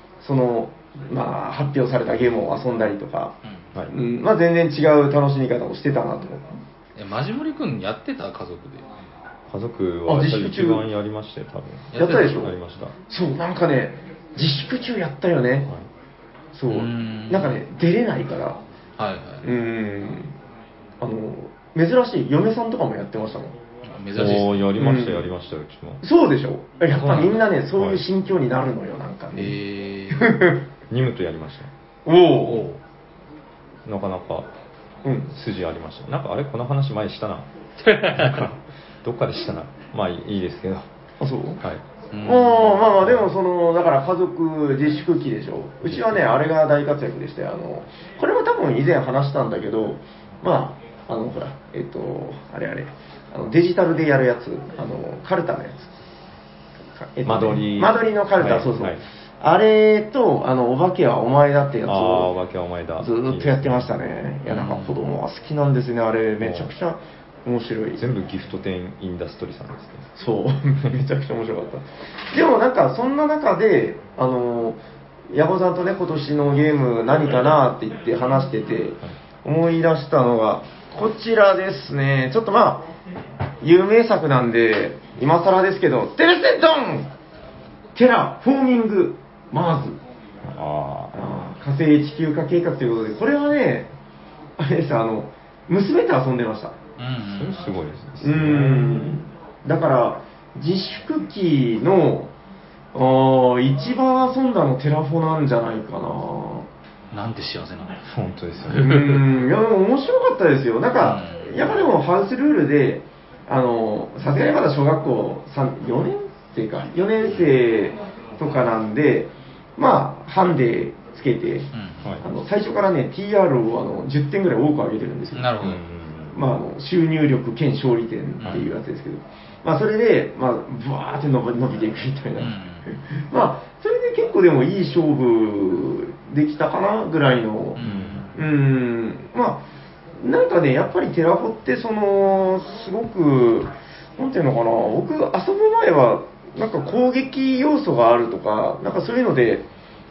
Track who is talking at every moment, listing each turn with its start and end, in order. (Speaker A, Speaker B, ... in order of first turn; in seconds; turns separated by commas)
Speaker A: 0.2-3.4, Speaker A: 3.9-6.5, Speaker B: 7.0-8.8, Speaker C: 9.5-12.9, Speaker A: 10.1-10.9, Speaker B: 11.9-12.4, Speaker A: 11.9-12.6, Speaker A: 13.1-15.7, Speaker A: 16.5-18.6, Speaker B: 16.7-17.6, Speaker B: 19.0-19.4, Speaker A: 19.4-20.3, Speaker A: 21.0-23.6, Speaker B: 23.8-24.7, Speaker C: 24.1-26.0, Speaker A: 24.8-25.3, Speaker A: 26.0-29.6, Speaker B: 26.9-27.4, Speaker C: 27.8-28.0, Speaker B: 29.4-30.3, Speaker A: 30.1-30.6, Speaker C: 30.9-31.7, Speaker A: 32.1-32.7, Speaker B: 32.4-32.8, Speaker C: 33.9-34.5, Speaker A: 35.0-35.3, Speaker C: 35.3-37.5, Speaker B: 37.8-38.5, Speaker C: 38.1-40.9, Speaker A: 41.2-41.6, Speaker B: 42.1-42.9, Speaker A: 42.2-55.9, Speaker C: 43.0-43.3, Speaker C: 45.9-46.4, Speaker A: 57.0-62.3, Speaker C: 57.2-59.0, Speaker C: 61.9-63.9, Speaker A: 63.0-68.0, Speaker B: 64.5-65.0, Speaker C: 66.4-66.7, Speaker C: 68.0-70.1, Speaker A: 70.2-74.8, Speaker A: 75.3-82.9, Speaker A: 83.6-87.1, Speaker A: 88.0-90.0, Speaker C: 90.4-91.1, Speaker A: 91.1-93.9, Speaker A: 94.6-96.7, Speaker B: 97.0-97.6, Speaker C: 97.3-99.2, Speaker A: 98.2-102.3, Speaker A: 102.9-106.7, Speaker B: 107.1-108.0, Speaker C: 108.1-109.0, Speaker B: 108.7-109.2, Speaker A: 108.8-121.7, Speaker B: 111.0-111.8, Speaker B: 121.8-122.0, Speaker A: 122.2-125.6, Speaker B: 125.3-125.8, Speaker C: 125.6-126.4, Speaker A: 126.3-139.7, Speaker B: 128.4-128.7, Speaker B: 132.4-132.9, Speaker B: 137.8-138.3, Speaker C: 137.8-138.3, Speaker A: 140.2-149.7